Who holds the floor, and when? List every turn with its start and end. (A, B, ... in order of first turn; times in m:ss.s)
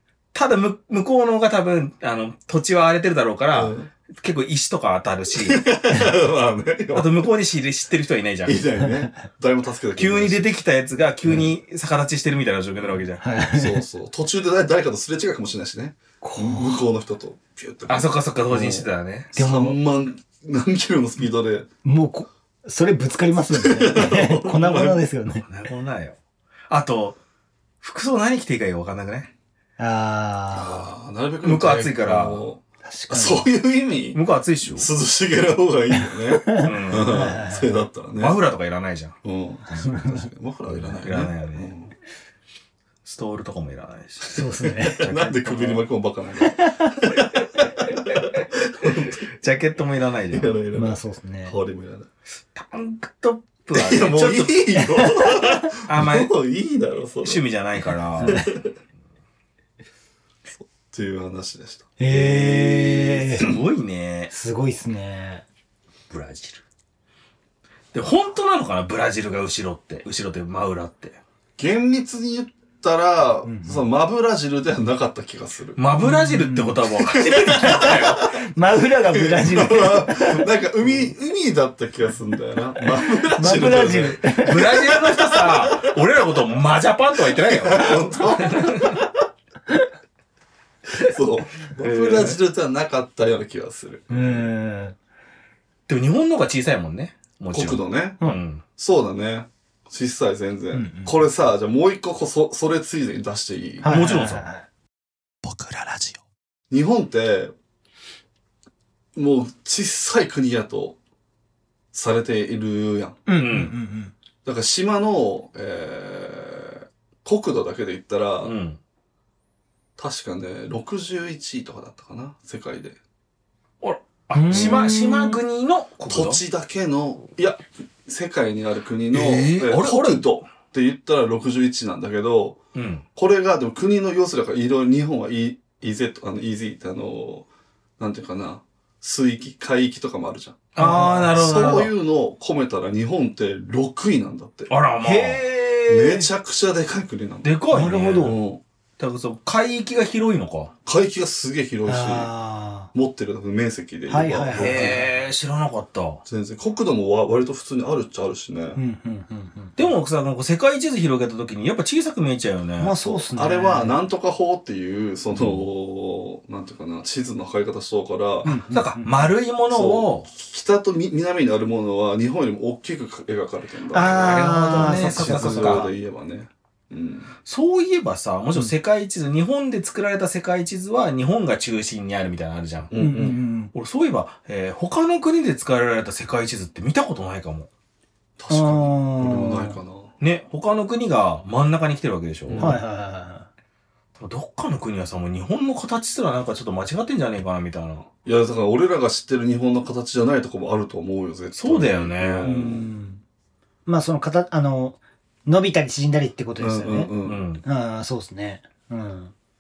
0:00.3-0:05.6 A
0:03.5-0:03.9 B
0:05.4-0:07.3 B
0:06.9-0:08.6 A
0:08.4-0:10.5 B
0:08.8-0:09.1 C
0:10.0-0:13.2 A
0:11.2-0:11.6 B
0:13.2-0:13.8 C
0:13.5-0:21.7 B
0:16.2-0:16.8 C
0:17.9-0:19.3 A
0:19.3-0:19.8 C
0:21.8-0:25.5 C
0:23.5-0:25.0 B
0:25.4-0:26.2 A
0:26.7-0:27.2 A
0:27.8-0:29.3 A
0:29.8-0:30.9 C
0:30.5-0:34.2 B
0:31.4-0:32.4 A
0:32.8-0:33.5 C
0:34.1-0:34.9 A
0:34.7-0:38.4 B
0:36.2-0:37.9 C
0:36.6-0:37.3 A
0:38.2-0:39.2 A
0:39.2-0:41.9 B
0:39.7-0:40.2 C
0:40.7-0:41.7 A
0:43.0-0:45.8 A
0:44.3-0:45.1 C
0:44.3-0:49.3 B
0:46.4-0:47.0 C
0:47.1-0:48.4 A
0:49.3-0:50.6 A
0:50.3-0:52.1 B
0:50.7-0:51.5 C
0:52.5-0:54.6 A
0:53.7-0:57.4 B
0:54.8-0:55.7 C
0:55.8-0:56.3 A
0:57.2-0:58.5 A
0:58.2-0:58.7 B
1:00.6-1:03.6 B
1:02.0-1:03.5 C
1:03.4-1:04.3 A
1:04.3-1:05.4 C
1:06.1-1:06.6 A
1:07.9-1:11.2 A
1:11.6-1:15.9 B
1:13.4-1:13.9 C
1:15.8-1:18.3 A
1:16.0-1:16.9 C
1:17.1-1:18.1 B
1:17.4-1:20.9 C
1:19.1-1:25.8 B
1:23.3-1:25.0 C
1:24.3-1:29.0 A
1:27.3-1:29.1 B
1:30.9-1:34.5 B
1:31.8-1:32.4 A
1:34.1-1:35.0 C
1:35.9-1:38.6 A
1:37.5-1:38.2 B
1:38.8-1:44.1 B
1:40.7-1:41.2 C
1:43.8-1:44.7 C
1:43.8-1:44.5 A
1:45.4-1:46.2 A
1:46.7-1:47.5 B
1:49.2-1:51.0 B
1:51.9-1:53.2 B
1:53.3-1:54.1 C
1:53.4-1:53.7 A
1:54.4-1:58.5 B
1:58.4-1:58.8 A
2:00.0-2:03.0 B
2:03.8-2:06.4 A
2:04.3-2:05.4 C
2:04.5-2:04.8 B
2:06.1-2:12.6 B
2:09.1-2:10.3 A
2:12.7-2:13.0 A
2:13.2-2:17.5 B
2:18.0-2:20.7 B
2:20.7-2:21.9 A
2:20.8-2:21.5 C
2:21.3-2:24.7 B
2:24.7-2:25.6 A
2:25.0-2:26.2 C
2:25.9-2:27.6 B
2:27.4-2:28.4 A
2:27.7-2:28.4 C
2:28.2-2:28.6 B
2:29.0-2:30.7 A
2:30.8-2:32.3 B
2:31.9-2:32.9 C
2:32.9-2:35.1 B
2:34.1-2:35.0 C
2:34.5-2:36.2 A
2:36.3-2:38.8 B
2:38.7-2:39.8 C
2:39.8-2:43.0 A
2:42.8-2:44.0 C
2:43.0-2:48.6 B
2:45.3-2:45.6 A
2:48.4-2:49.3 C
2:48.7-2:50.3 A
2:49.7-2:57.3 B
2:53.9-2:55.9 C
2:54.0-2:55.9 A
2:57.4-3:03.0 A
3:02.9-3:03.4 B
3:03.0-3:03.7 C
3:03.7-3:07.7 A
3:08.4-3:10.1 B
3:08.5-3:09.8 C
3:10.2-3:12.8 A
3:12.5-3:12.8 B
3:12.6-3:13.5 C
3:14.2-3:18.1 A
3:18.2-3:22.9 B
3:21.5-3:22.6 A
3:22.4-3:23.2 C
3:23.8-3:29.3 C
3:26.6-3:27.4 B
3:27.2-3:27.6 A